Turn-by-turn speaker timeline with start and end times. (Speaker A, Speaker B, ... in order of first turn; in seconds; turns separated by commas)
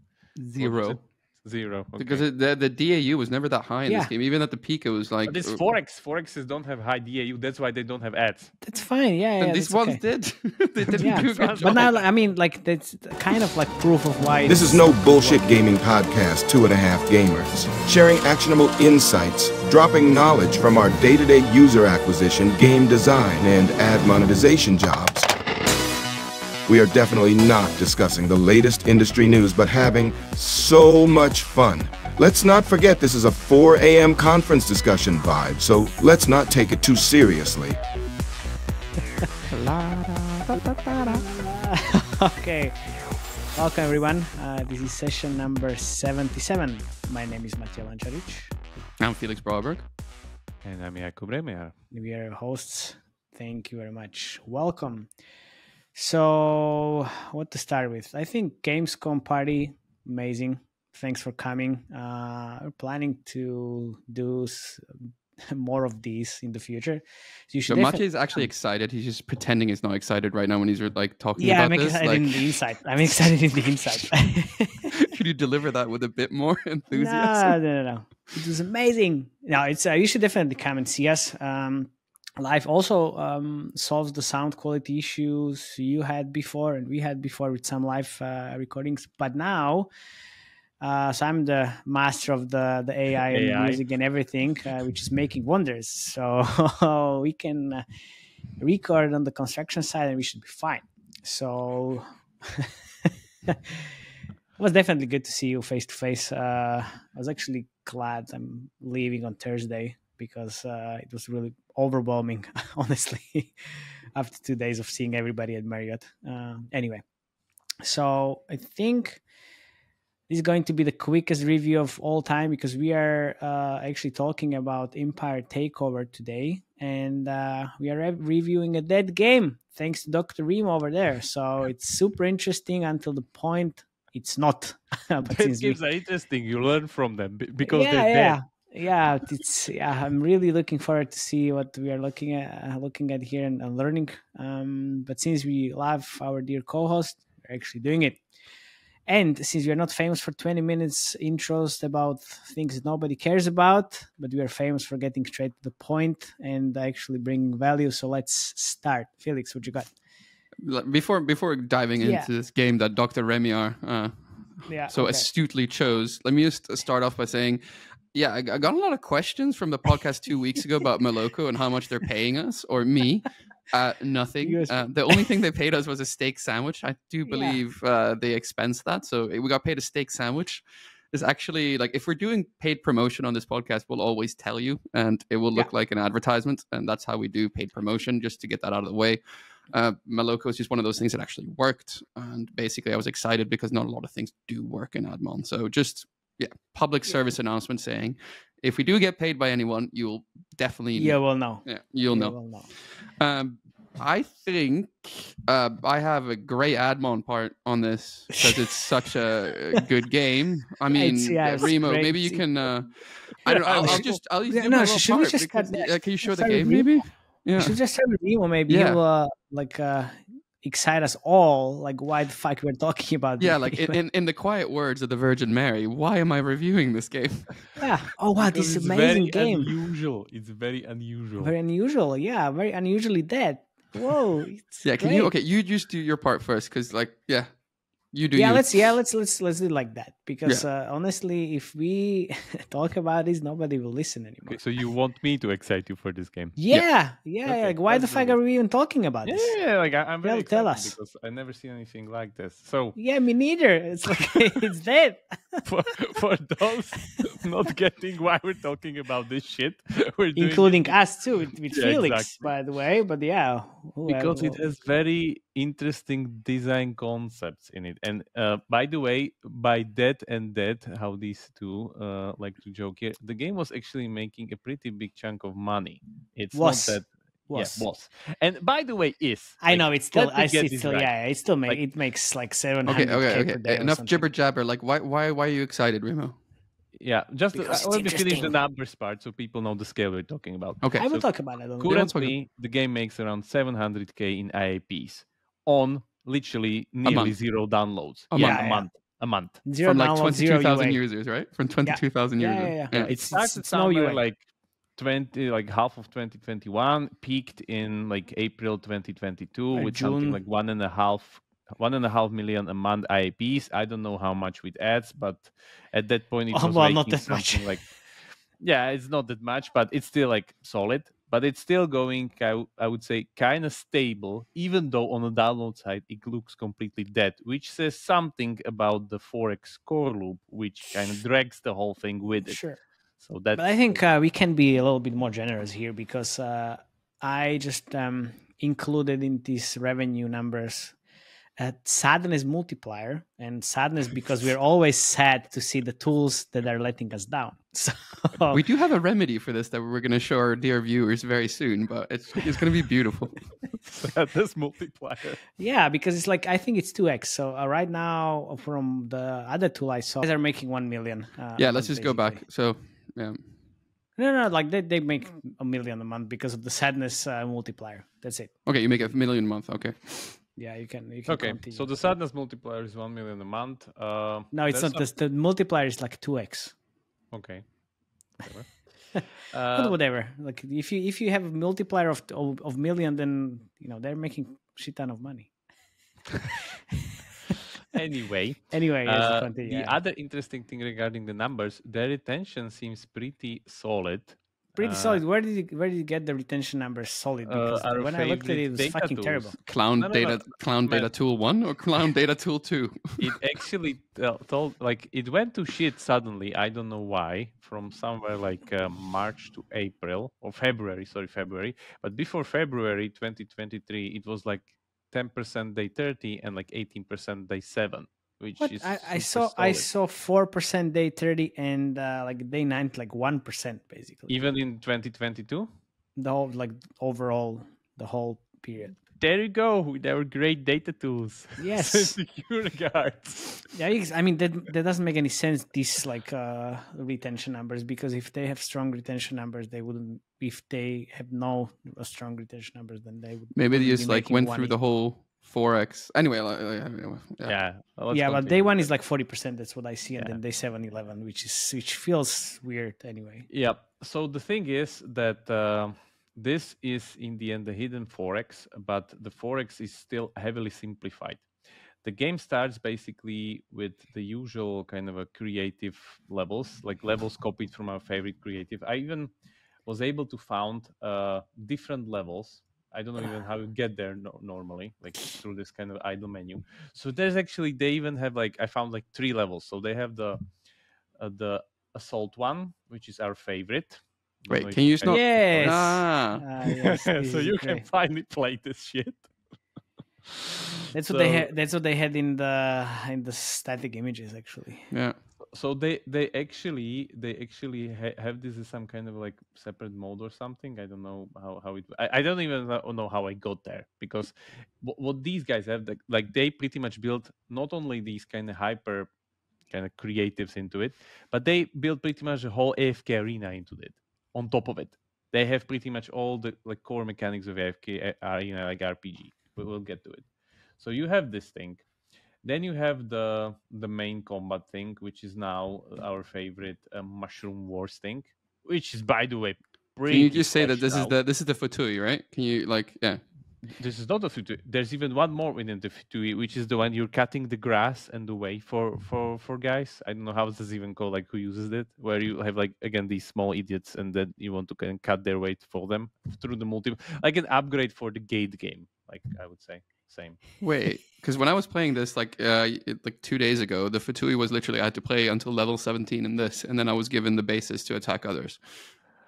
Speaker A: 0.4-1.0, Speaker B: 0.6-2.2, Speaker A: 2.0-5.6, Speaker C: 3.9-4.1, Speaker B: 5.2-8.5, Speaker C: 8.6-10.0, Speaker A: 9.4-11.9, Speaker C: 11.0-15.5, Speaker B: 11.0-12.1, Speaker D: 14.5-25.3, Speaker D: 26.7-37.8, Speaker A: 39.5-41.3, Speaker C: 41.1-43.0, Speaker C: 43.5-48.5, Speaker A: 49.0-49.9, Speaker B: 50.6-51.7, Speaker C: 51.9-55.1, Speaker C: 55.9-68.0, Speaker A: 67.7-72.5, Speaker C: 71.4-75.0, Speaker A: 74.9-77.6, Speaker C: 76.9-89.9, Speaker C: 90.8-97.8, Speaker B: 93.3-93.8, Speaker C: 98.6-102.7, Speaker C: 104.6-113.5, Speaker C: 114.2-117.0, Speaker C: 117.8-119.2, Speaker C: 120.3-135.8, Speaker B: 135.2-138.4, Speaker C: 137.6-148.2, Speaker C: 149.1-159.9, Speaker A: 160.6-189.2, Speaker C: 162.0-162.3, Speaker C: 164.7-165.3, Speaker C: 174.4-175.2, Speaker C: 177.3-177.6, Speaker A: 189.7-217.8, Speaker C: 200.9-202.7, Speaker C: 210.9-212.6, Speaker B: 213.5-214.2, Speaker C: 213.8-224.0, Speaker A: 218.7-219.0, Speaker A: 223.4-227.8, Speaker C: 227.8-229.7, Speaker B: 228.4-231.5, Speaker C: 231.4-235.3, Speaker A: 234.8-238.8, Speaker C: 238.3-244.6, Speaker B: 244.5-246.6, Speaker C: 246.6-249.6, Speaker B: 247.3-248.4, Speaker B: 249.2-253.0, Speaker C: 250.2-250.9, Speaker C: 253.0-255.7, Speaker B: 255.7-260.9, Speaker C: 260.4-264.6, Speaker B: 261.7-262.5, Speaker B: 264.1-281.8, Speaker C: 276.5-277.9, Speaker C: 279.6-284.3, Speaker A: 282.9-286.4, Speaker B: 286.9-299.6, Speaker C: 287.5-288.6, Speaker C: 291.0-291.9, Speaker A: 291.9-292.3, Speaker A: 297.0-297.4, Speaker A: 298.3-298.7, Speaker C: 298.4-298.9, Speaker C: 299.6-301.0, Speaker A: 299.8-303.1, Speaker C: 301.8-304.2, Speaker B: 302.9-304.4, Speaker B: 305.0-332.6, Speaker C: 309.8-310.4, Speaker C: 316.5-317.8, Speaker C: 332.4-332.8, Speaker B: 333.2-334.0, Speaker C: 333.6-341.0, Speaker C: 341.6-348.6, Speaker A: 348.5-353.5, Speaker B: 353.8-355.4, Speaker C: 355.6-362.4, Speaker A: 361.6-363.4, Speaker C: 364.2-368.6, Speaker A: 368.6-370.4, Speaker C: 370.6-372.0, Speaker B: 371.3-375.1, Speaker C: 374.5-376.7, Speaker B: 377.3-377.7, Speaker B: 378.3-380.0, Speaker C: 379.8-385.5, Speaker B: 387.9-395.2, Speaker C: 388.7-390.0, Speaker C: 394.8-399.6, Speaker B: 397.4-401.1, Speaker A: 399.7-403.3, Speaker B: 403.2-419.9, Speaker C: 418.6-424.4, Speaker B: 424.3-425.7, Speaker C: 426.2-428.9, Speaker B: 429.1-433.7, Speaker C: 431.6-432.2, Speaker C: 433.7-444.8, Speaker A: 443.5-447.6, Speaker B: 447.4-448.9, Speaker C: 448.1-453.5, Speaker B: 453.5-461.5, Speaker B: 462.0-469.3, Speaker B: 469.9-480.4, Speaker B: 481.2-485.7, Speaker A: 484.5-486.4, Speaker C: 485.1-487.9, Speaker B: 486.6-489.3, Speaker B: 490.4-491.5, Speaker C: 490.9-494.9, Speaker A: 494.9-495.2, Speaker B: 495.5-509.1, Speaker B: 509.7-520.3, Speaker B: 520.8-521.9, Speaker B: 522.4-531.1, Speaker A: 530.1-533.2, Speaker B: 533.7-550.4, Speaker A: 550.6-558.9